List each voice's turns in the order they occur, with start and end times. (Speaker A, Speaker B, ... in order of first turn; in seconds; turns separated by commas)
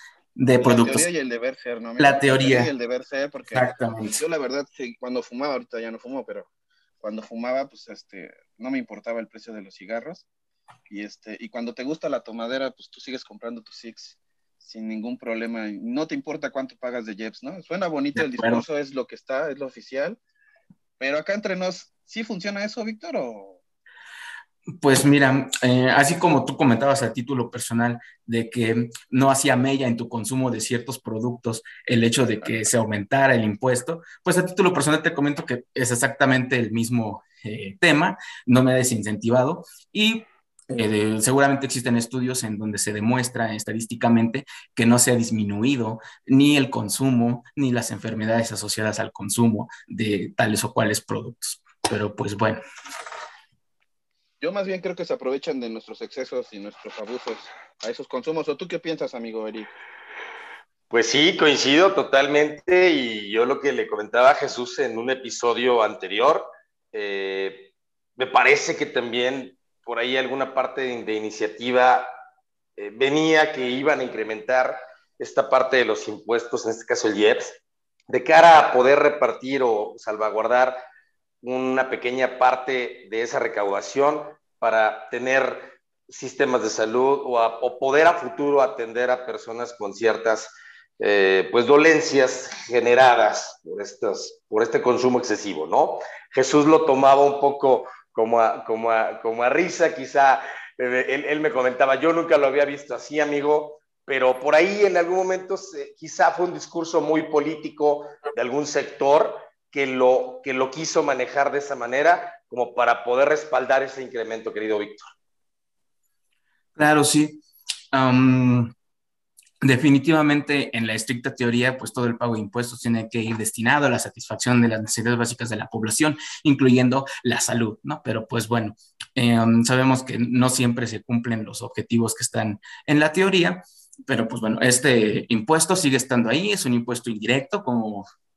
Speaker A: 0.3-1.1, Speaker B: 0.6-6.5, Speaker A: 2.0-2.7, Speaker A: 3.5-4.2, Speaker B: 7.0-10.2, Speaker B: 10.9-20.2, Speaker A: 18.1-18.6, Speaker B: 21.0-23.6, Speaker A: 24.8-52.6, Speaker B: 54.4-59.7, Speaker C: 60.9-72.1, Speaker C: 72.8-77.6, Speaker C: 78.1-80.8, Speaker C: 81.4-115.1, Speaker A: 116.8-118.7, Speaker A: 119.6-138.1